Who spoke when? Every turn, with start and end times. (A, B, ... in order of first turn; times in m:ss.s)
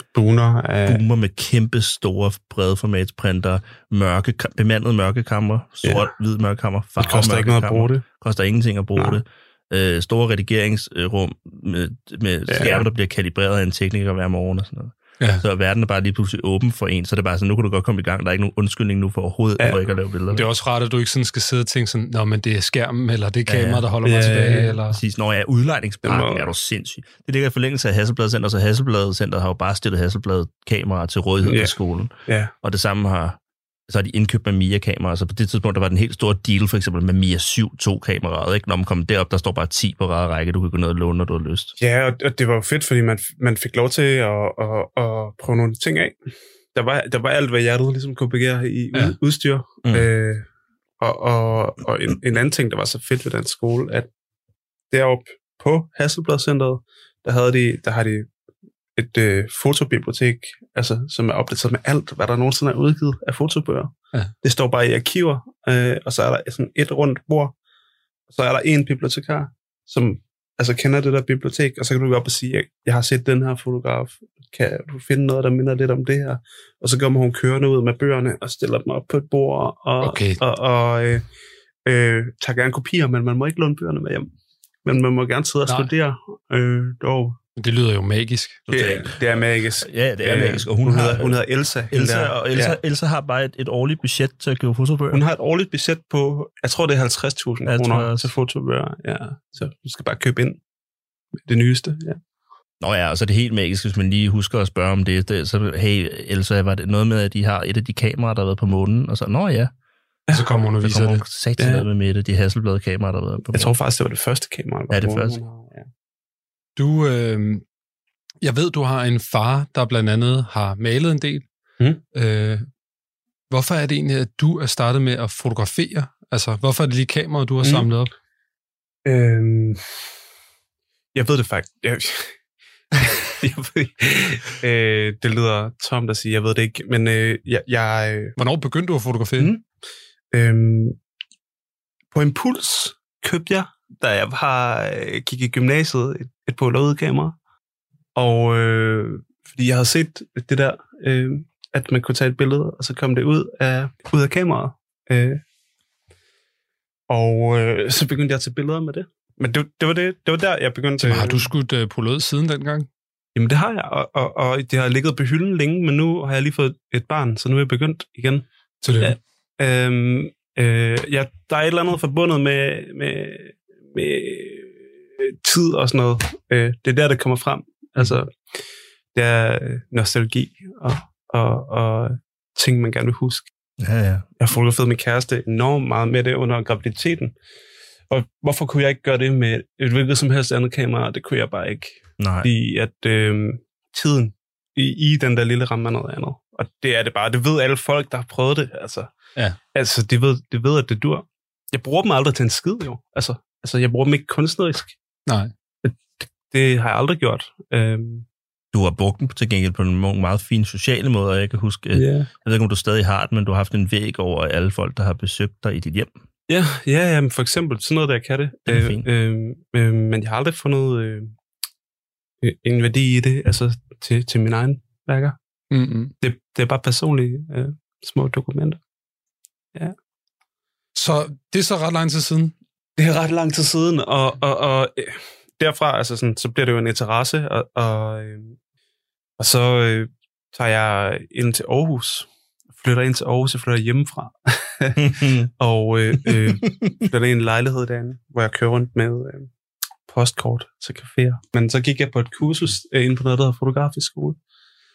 0:00.1-0:01.0 A
0:00.9-0:20.5 B
0:07.0-0:08.0 A
0:12.5-0:12.9 A
0:20.3-0:25.0 C
0:23.5-0:23.8 B
0:24.0-0:24.8 A
0:24.9-0:32.1 B
0:26.0-0:26.5 A
0:31.4-0:31.7 A
0:32.3-0:32.5 A
0:32.6-0:41.7 B
0:41.8-0:46.2 A
0:46.8-0:50.5 A
0:51.0-0:54.1 A
0:54.9-0:58.3 A
0:59.0-1:07.5 A
1:08.3-1:21.3 A
1:20.0-1:20.4 C
1:21.8-1:24.3 A
1:24.8-1:27.4 A
1:27.6-1:28.6 C
1:28.7-1:29.2 B
1:28.7-1:32.8 A
1:29.8-1:31.4 B
1:31.9-1:35.2 B
1:35.1-1:40.6 A
1:37.7-1:38.3 B
1:41.4-1:42.2 A
1:42.8-1:49.7 B
1:50.3-1:51.2 C
1:50.8-1:53.7 B
1:51.6-1:51.8 A
1:53.5-1:55.9 A
1:54.9-1:55.4 B
1:56.8-1:57.6 C
1:58.4-2:01.5 C
2:02.2-2:02.7 C
2:03.5-2:08.1 C
2:09.0-2:09.8 A
2:11.2-2:12.3 A
2:12.9-2:18.4 A
2:18.4-2:19.5 C
2:19.4-2:19.6 A
2:20.3-2:21.0 A
2:22.1-2:27.4 A
2:28.2-2:35.4 A
2:37.1-2:41.5 A
2:41.0-2:42.9 C
2:43.4-2:48.4 A
2:48.8-2:49.2 C
2:49.0-2:58.3 A
2:59.1-3:03.5 A
3:03.8-3:04.2 B
3:04.4-3:07.3 A
3:08.1-3:19.1 A
3:12.2-3:12.5 B
3:19.7-3:25.0 A
3:25.8-3:28.3 A
3:28.7-3:36.1 B
3:31.9-3:32.3 A
3:36.5-3:41.3 A
3:38.7-3:39.1 B
3:42.4-3:45.4 A
3:45.7-3:46.1 C
3:46.2-3:48.8 A
3:51.0-3:52.5 C
3:53.0-3:58.6 A
3:59.4-4:09.5 A
4:05.0-4:05.5 B
4:06.2-4:06.6 B
4:10.1-4:14.4 A